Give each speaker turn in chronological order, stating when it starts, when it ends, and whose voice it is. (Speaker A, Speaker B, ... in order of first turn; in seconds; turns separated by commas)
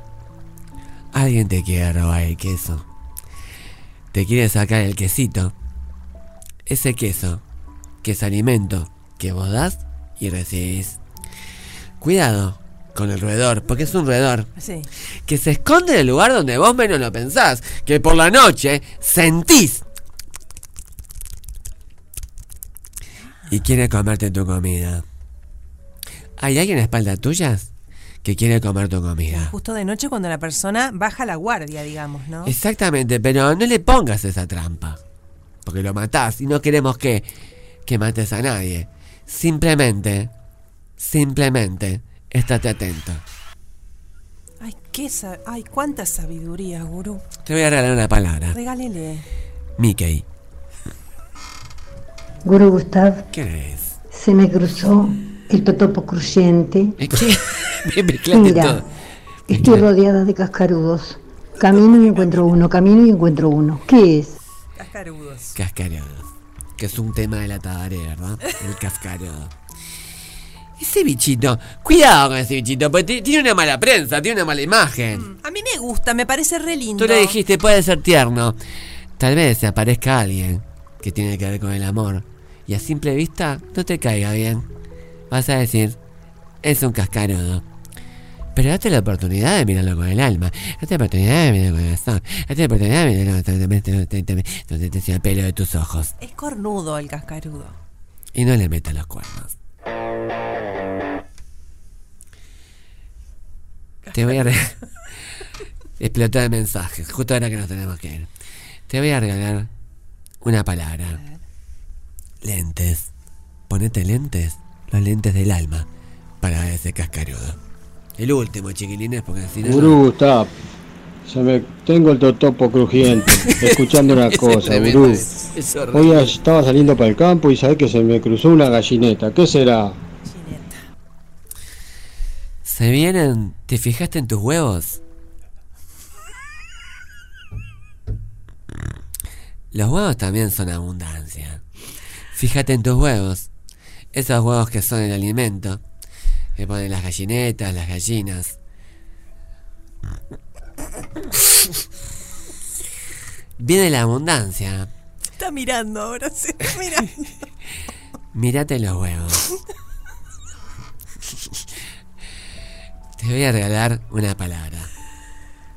Speaker A: 1.1-2.9, Speaker A: 4.1-5.5, Speaker A: 6.7-7.4, Speaker A: 8.0-11.0, Speaker A: 12.0-14.5, Speaker B: 14.6-14.9, Speaker A: 15.2-19.8, Speaker A: 23.5-25.0, Speaker A: 26.4-27.7, Speaker A: 28.2-29.5, Speaker B: 29.3-32.5, Speaker A: 32.4-35.0, Speaker A: 35.6-37.3, Speaker A: 37.9-40.3, Speaker A: 41.0-43.2, Speaker B: 44.6-47.2, Speaker A: 47.4-48.6, Speaker B: 48.5-49.2, Speaker A: 49.8-50.2, Speaker C: 52.4-53.2, Speaker A: 53.3-54.0, Speaker C: 54.1-57.0, Speaker A: 57.0-58.8, Speaker C: 58.3-58.8, Speaker A: 59.5-59.8, Speaker C: 59.5-64.4, Speaker B: 64.8-65.5, Speaker A: 65.5-69.5, Speaker A: 70.8-75.3, Speaker B: 75.1-77.4, Speaker A: 77.0-78.6, Speaker A: 79.2-84.7, Speaker A: 85.3-86.0, Speaker A: 86.6-87.6, Speaker A: 88.5-96.1, Speaker B: 96.2-97.8, Speaker A: 98.3-99.5, Speaker A: 104.1-104.7, Speaker B: 104.1-104.4, Speaker A: 106.0-108.3, Speaker A: 108.9-109.7, Speaker A: 110.4-111.2, Speaker B: 111.1-111.4, Speaker A: 112.4-113.1, Speaker A: 113.7-115.9, Speaker A: 116.4-117.6, Speaker A: 118.2-120.0, Speaker D: 119.6-120.5, Speaker D: 121.2-125.3, Speaker A: 123.3-126.4, Speaker D: 125.9-129.9, Speaker B: 130.2-130.8, Speaker A: 132.6-135.0, Speaker A: 139.7-141.6, Speaker A: 142.3-143.5, Speaker A: 144.1-145.8, Speaker A: 146.6-148.6, Speaker A: 153.6-154.9, Speaker B: 155.4-157.3, Speaker A: 158.3-159.4, Speaker A: 163.2-164.9